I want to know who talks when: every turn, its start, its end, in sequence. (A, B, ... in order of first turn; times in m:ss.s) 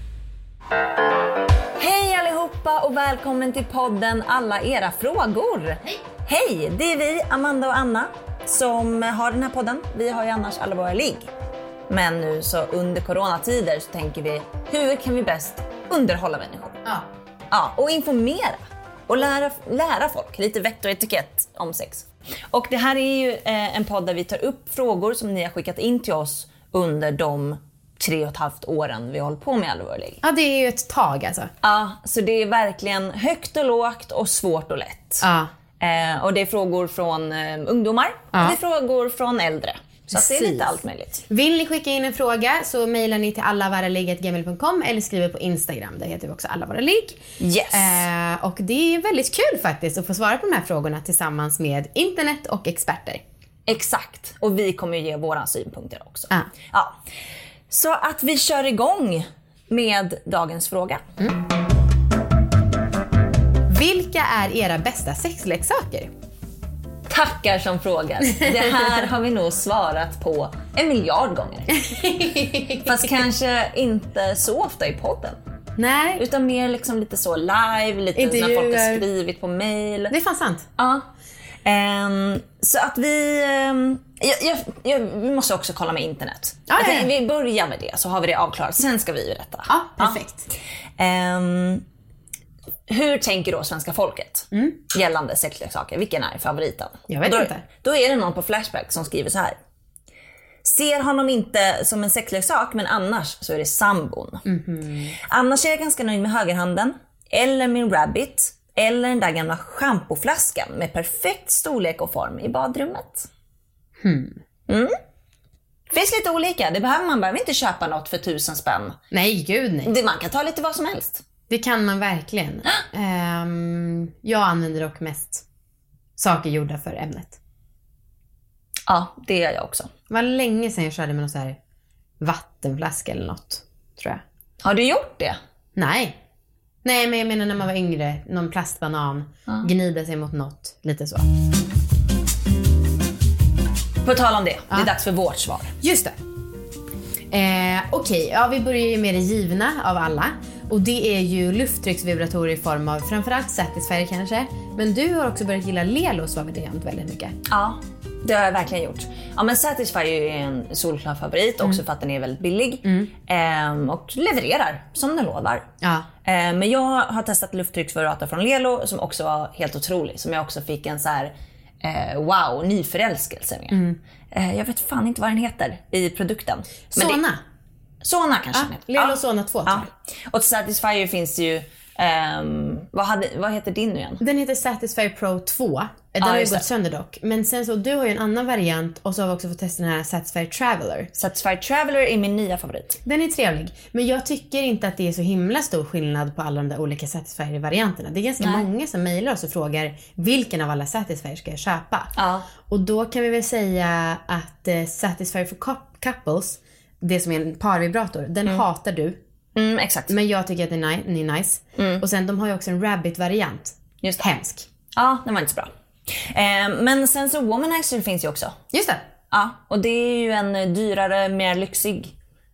0:01.8-0:11.3 A
0:11.9-0:16.8 A
0:17.5-0:30.2 A
0:30.2-0:31.5 B
0:31.6-0:35.3 A
0:35.2-0:35.5 B
0:35.8-0:41.2 A
0:38.3-0:38.6 B
0:40.1-0:53.2 B
0:47.4-0:48.1 A
0:53.7-0:57.0 A
0:57.7-1:01.0 A
1:03.7-1:06.1 B
1:07.1-1:11.8 A
1:11.7-1:12.9 B
1:12.8-1:15.4 A
1:15.8-1:16.2 B
1:16.2-1:20.2 A
1:18.2-1:19.1 B
1:20.1-1:20.7 B
1:20.8-1:21.1 A
1:21.6-1:30.2 A
1:26.7-1:27.1 B
1:29.7-1:30.5 B
1:31.0-1:31.8 A
1:32.9-1:39.5 A
1:34.5-1:34.8 B
1:37.1-1:37.6 B
1:40.6-1:44.4 A
1:44.5-1:45.2 B
1:45.2-1:53.3 A
1:54.0-1:54.4 B
1:54.7-1:54.9 A
1:55.9-1:59.0 A
1:59.1-1:59.9 B
1:59.8-2:01.2 A
2:01.5-2:05.4 B
2:06.2-2:07.4 B
2:08.9-2:09.9 A
2:10.1-2:11.6 B
2:12.2-2:14.2 B
2:14.6-2:15.4 A
2:15.8-2:16.2 B
2:16.8-2:21.3 B
2:24.0-2:25.7 A
2:25.8-2:26.2 B
2:27.3-2:37.3 B
2:37.5-2:45.7 A
2:42.8-2:43.1 B
2:45.8-2:46.1 B
2:46.2-2:57.2 A
2:53.7-2:54.0 B
2:56.9-2:57.4 B
2:58.0-3:04.2 A
2:58.5-2:59.9 B
3:04.2-3:11.1 B
3:06.2-3:06.7 A
3:11.2-3:13.0 A
3:13.0-3:22.1 B
3:18.4-3:18.7 A
3:22.2-3:22.5 A
3:22.7-3:29.2 B
3:29.6-3:30.2 A
3:30.1-3:34.7 B
3:31.8-3:32.0 A
3:34.9-3:35.7 A
3:36.2-3:38.6 A
3:38.7-3:39.0 B
3:39.3-3:42.1 A